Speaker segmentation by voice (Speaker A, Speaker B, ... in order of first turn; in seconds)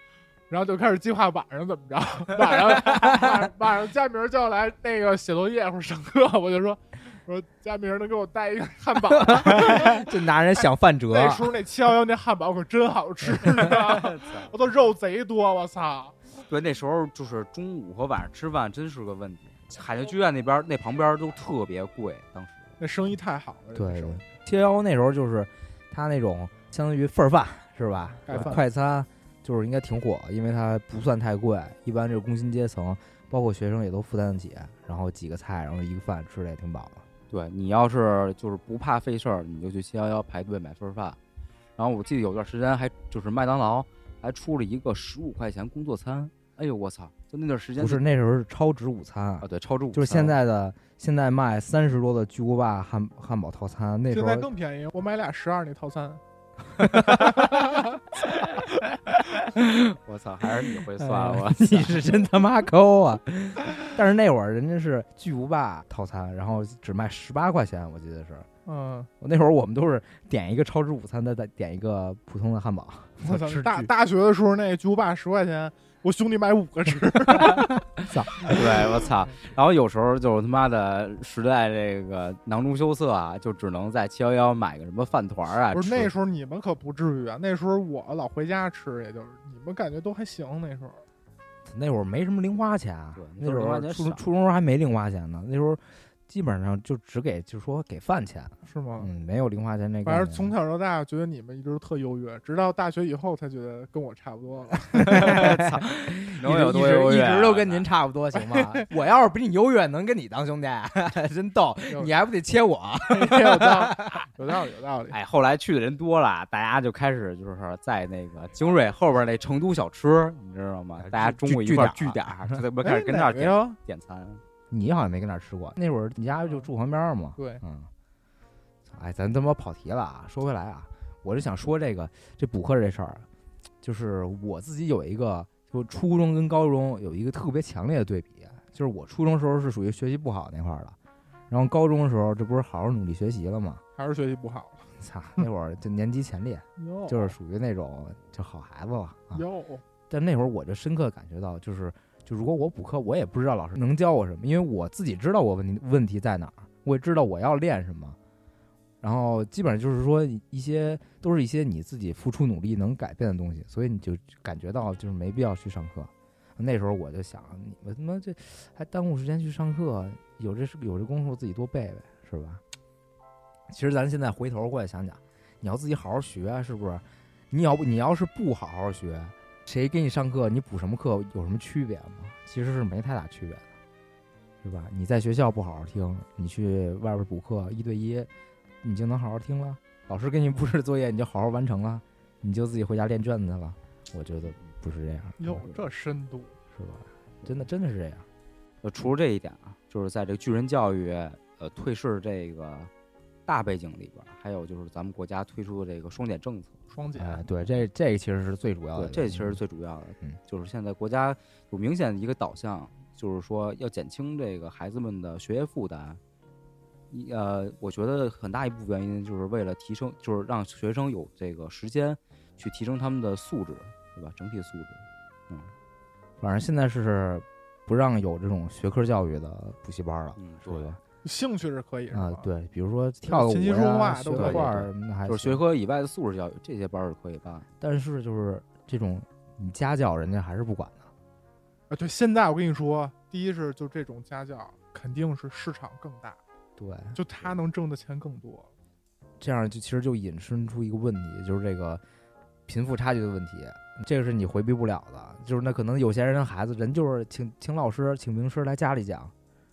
Speaker A: 0.5-10.2, 11.1-16.1, 22.8-24.3, 28.3-28.7, 54.1-56.2, 57.0-58.0, 68.7-69.1, 73.2-77.7, 85.7-91.0, 98.7-99.1, 100.0-105.4, 108.4-108.8, 113.1-115.2, 122.8-123.8, 127.4-127.6, 144.0-145.5, 146.8-147.4, 149.3-149.8, 195.4-196.6, 206.9-207.4, 231.2-232.5, 233.3-234.8, 241.9-246.4, 247.1-248.7
Speaker B: 9.1-11.5, 23.8-37.0, 47.8-54.5, 56.8-57.5, 61.0-68.5, 69.2-73.9, 77.4-78.6, 91.7-100.5, 105.1-114.3, 121.0-122.6, 124.7-127.9, 128.9-133.3, 133.8-141.0, 141.5-143.8, 145.0-149.4, 150.1-158.2, 159.0-172.6, 173.7-183.7, 184.6-188.3, 188.8-195.7, 196.8-198.3, 207.2-209.6, 226.4-231.0, 232.1-235.6, 237.8-241.1, 246.8-247.2, 249.4-252.0, 252.7-259.3
Speaker C: 13.7-14.5, 16.4-22.7, 37.3-41.2, 41.8-48.0, 49.4-50.4, 60.0-62.1, 78.4-86.1, 93.2-94.2, 105.0-107.9, 115.1-124.4, 198.8-202.9, 203.5-206.8, 208.9-216.2, 217.1-225.7, 230.4-231.0, 234.4-237.7